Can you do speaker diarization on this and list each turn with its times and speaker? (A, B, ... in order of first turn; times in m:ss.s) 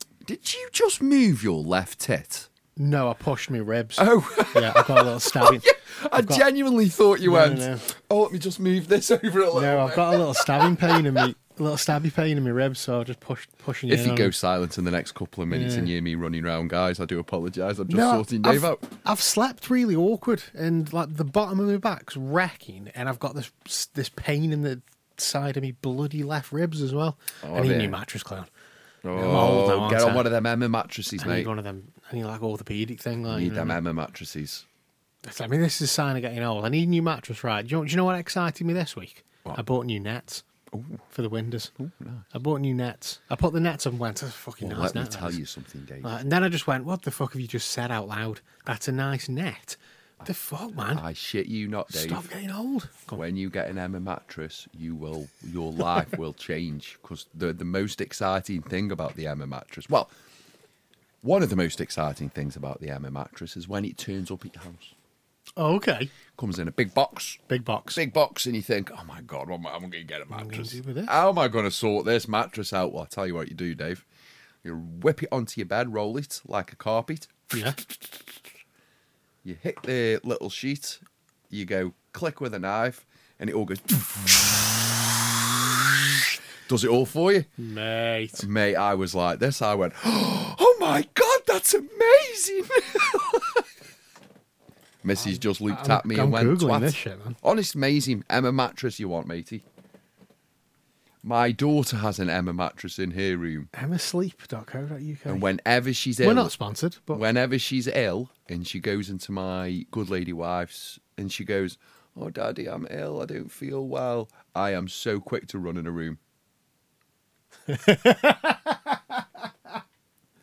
0:00.2-0:02.5 A
0:02.8-0:06.4 B
0:04.0-0:11.3 A
0:07.2-0:07.9 B
0:09.5-0:14.3 B
0:13.9-0:18.9 A
0:15.5-0:15.9 B
0:17.9-0:28.5 B
0:27.4-0:28.0 A
0:29.0-0:31.5 A
0:29.1-0:30.3 B
0:31.2-0:33.8 B
0:33.3-0:34.6 A
0:35.2-0:40.4 B
0:40.7-0:41.0 A
0:41.1-0:41.7 B
0:41.8-0:42.2 A
0:42.3-0:45.4 B
0:44.6-0:46.1 A
0:46.0-0:51.0 B
0:50.9-0:52.3 A
0:51.9-0:53.2 B
0:53.1-1:00.1 A
1:01.2-1:04.9 A
1:05.6-1:06.1 B
1:06.3-1:07.4 A
1:07.5-1:08.0 B
1:07.9-1:14.0 A
1:10.3-1:11.1 B
1:14.6-1:18.2 A
1:17.5-1:17.8 B
1:19.4-1:27.5 A
1:27.6-1:28.4 B
1:28.4-1:33.6 A
1:35.0-1:39.6 A
1:35.2-1:37.4 B
1:41.2-1:43.7 A
1:43.7-1:45.4 B
1:45.3-1:46.5 A
1:46.2-1:47.2 B
1:47.1-1:56.2 A
1:57.7-1:59.0 B